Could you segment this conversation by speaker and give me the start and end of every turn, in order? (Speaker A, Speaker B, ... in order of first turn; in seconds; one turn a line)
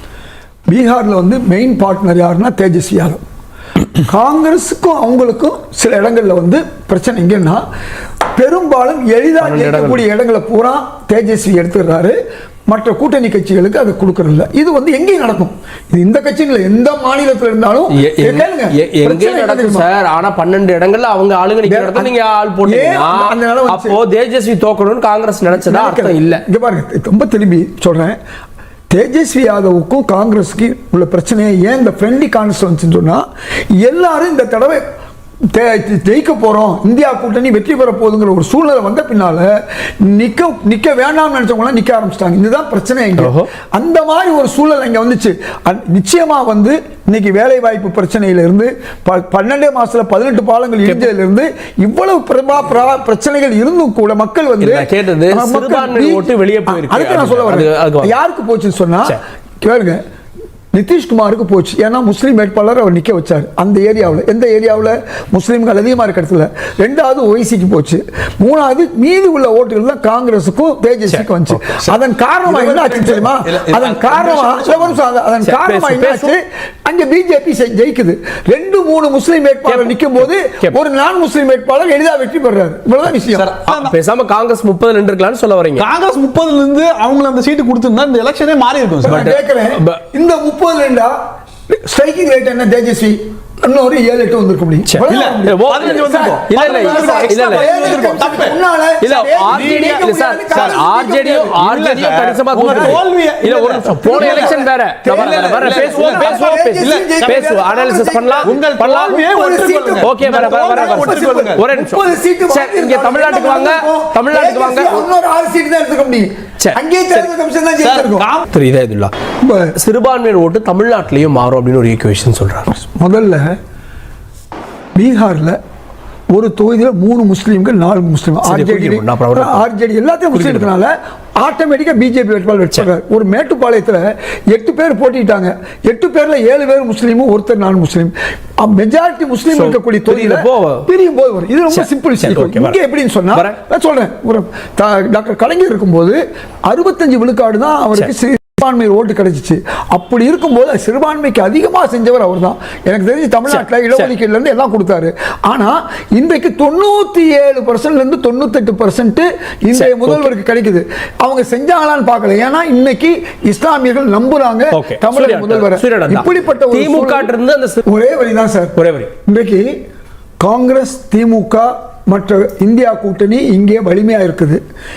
Speaker A: 0.7-3.2
Speaker A: 4.1-7.6
Speaker A: 8.3-12.2
Speaker B: 9.4-10.0
Speaker A: 12.7-19.9
Speaker B: 17.9-26.4
Speaker A: 21.6-24.0
Speaker A: 25.5-28.2
Speaker A: 28.9-33.3
Speaker A: 33.8-34.8
Speaker A: 35.5-60.0
Speaker B: 43.2-43.5
Speaker B: 50.9-51.1
Speaker B: 54.6-58.1
Speaker A: 60.7-83.5
Speaker C: 71.6-75.0
Speaker B: 75.4-76.3
Speaker B: 79.7-80.8
Speaker C: 83.2-83.9
Speaker B: 83.7-85.9
Speaker C: 85.8-89.3
Speaker A: 89.0-91.1
Speaker B: 89.1-90.0
Speaker A: 91.9-101.5
Speaker B: 94.9-97.9
Speaker C: 95.1-98.6
Speaker B: 99.0-109.2
Speaker C: 99.5-107.6
Speaker A: 102.6-103.0
Speaker A: 104.0-118.3
Speaker C: 108.4-111.6
Speaker B: 110.0-115.1
Speaker B: 116.6-117.3
Speaker C: 117.8-118.5
Speaker B: 118.5-119.1
Speaker A: 119.4-119.7
Speaker B: 119.8-122.7
Speaker A: 122.7-123.5
Speaker A: 125.0-125.6
Speaker A: 126.3-167.3
Speaker B: 128.4-129.7
Speaker B: 130.3-130.7
Speaker B: 139.5-140.9
Speaker B: 141.7-142.8
Speaker B: 153.5-154.1
Speaker B: 159.7-160.3
Speaker B: 164.7-167.8
Speaker A: 167.9-168.8
Speaker B: 168.8-169.1
Speaker A: 169.3-169.7
Speaker A: 170.4-174.6